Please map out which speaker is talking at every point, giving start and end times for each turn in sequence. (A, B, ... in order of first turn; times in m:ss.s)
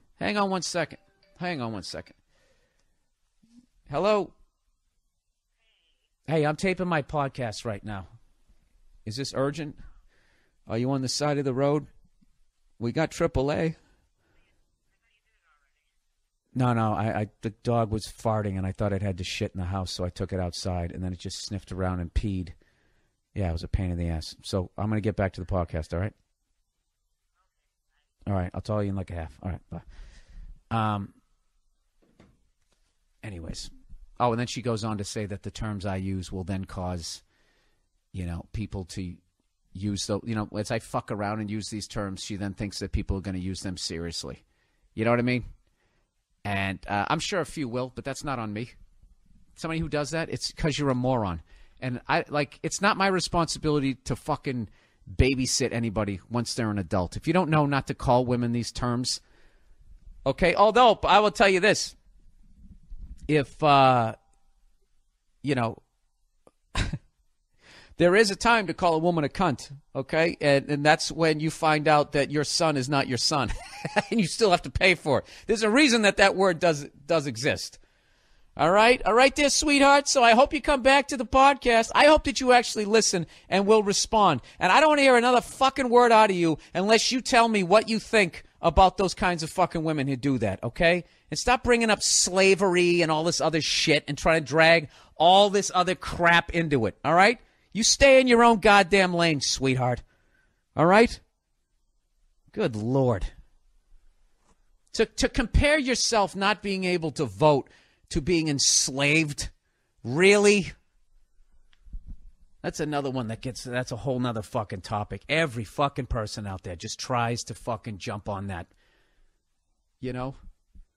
0:00.2-0:02.2 A
0:03.9-0:04.3 A
0:06.3-0:08.1 A
0:09.1-0:09.8 A
0:10.7-0:11.9 A
0:12.8-0:13.8 A
0:16.6-0:22.6 A
0:23.3-0:26.1 A
0:28.3-0:29.8 A
0:30.7-0:31.1 A
0:33.2-0:37.2 A
0:38.1-0:39.2 A
0:39.7-0:44.4 A
0:45.0-0:45.4 A
0:46.4-0:48.7 A
0:49.6-0:59.2 A
1:00.2-1:02.0 A
1:03.3-1:04.2 A
1:05.4-1:05.8 A
1:08.0-1:17.8 A
1:18.6-1:40.0 A
1:40.8-1:41.2 A
1:42.5-1:43.3 A
1:44.9-1:49.5 A
1:50.0-1:50.7 A
1:52.6-1:58.7 A
2:00.0-2:00.4 A